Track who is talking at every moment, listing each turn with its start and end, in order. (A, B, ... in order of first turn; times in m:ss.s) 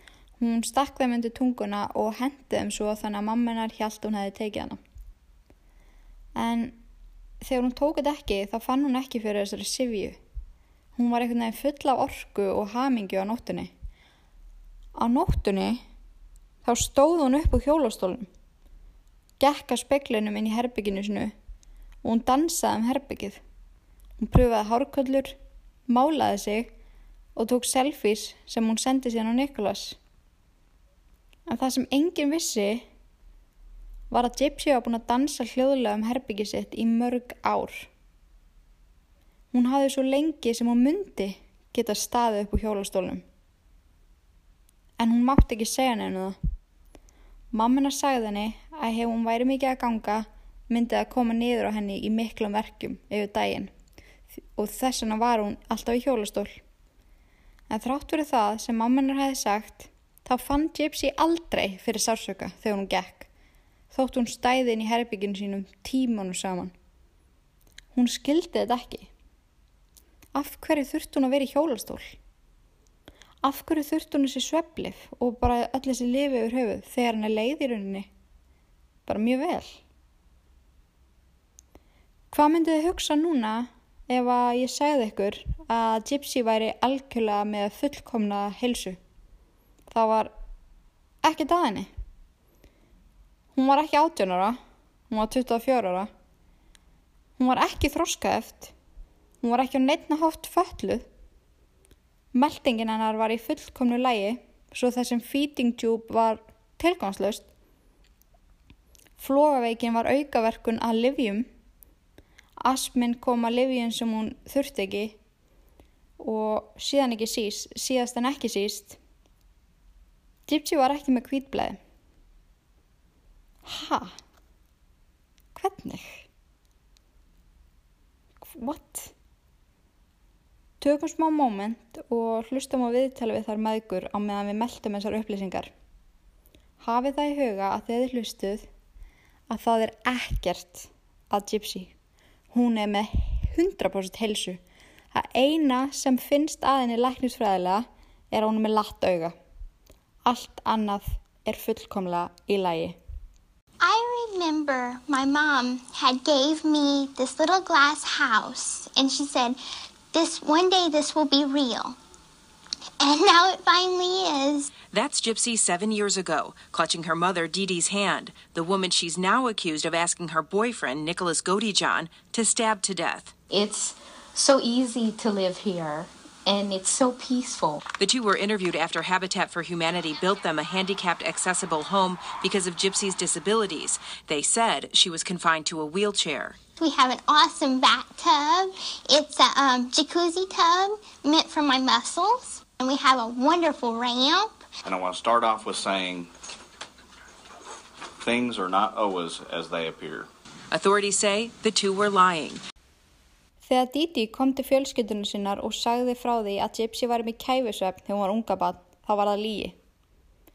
0:00.4-0:04.8 A
0:06.4-0:06.8 A
0:07.4-0:10.2 A
0:11.0-0:13.7 A
0:15.0-0:15.8 A
0:16.6-0:18.3 A
0:19.4-0:21.3 A
0:22.0-0:23.4 A
0:24.2-0:25.4 A
0:25.9-0:26.7 A
0:27.4-0:30.0 A
0:31.5-0:32.8 A
0:34.1-0:37.9 A
0:39.5-0:43.2 A
0:45.0-0:46.4 A
0:47.5-0:53.7 A
0:54.6-0:56.6 A
0:57.7-1:03.3 A
1:03.9-1:06.7 A
1:07.9-1:09.1 A
1:10.3-1:12.1 A
1:13.4-1:18.1 A
1:19.0-1:19.8 A
1:22.3-1:29.0 A
1:29.9-1:30.3 A
1:31.2-1:31.9 A
1:33.5-1:34.6 A
1:35.1-1:36.1 A
1:37.4-1:38.7 A
1:39.4-1:41.1 A
1:42.3-1:47.5 A
1:49.2-1:51.5 A
1:52.6-1:55.2 A
1:56.2-1:59.0 A
2:00.5-2:01.8 A
2:03.6-2:04.1 A
2:05.5-2:06.2 A
2:08.4-2:09.1 A
2:10.8-2:15.7 A
2:16.8-2:18.7 A
2:19.5-2:21.9 A
2:22.5-2:24.6 A
2:25.1-2:29.3 A
2:30.2-2:33.0 A
2:33.8-2:39.6 B
2:40.1-2:42.0 B
2:43.0-2:44.7 B
2:44.9-2:53.3 C
2:53.5-2:57.8 D
2:58.0-3:06.6 C
3:06.8-3:14.5 B
3:14.8-3:16.3 E
3:18.2-3:20.3 E
3:20.7-3:22.6 C
3:23.6-3:29.8 A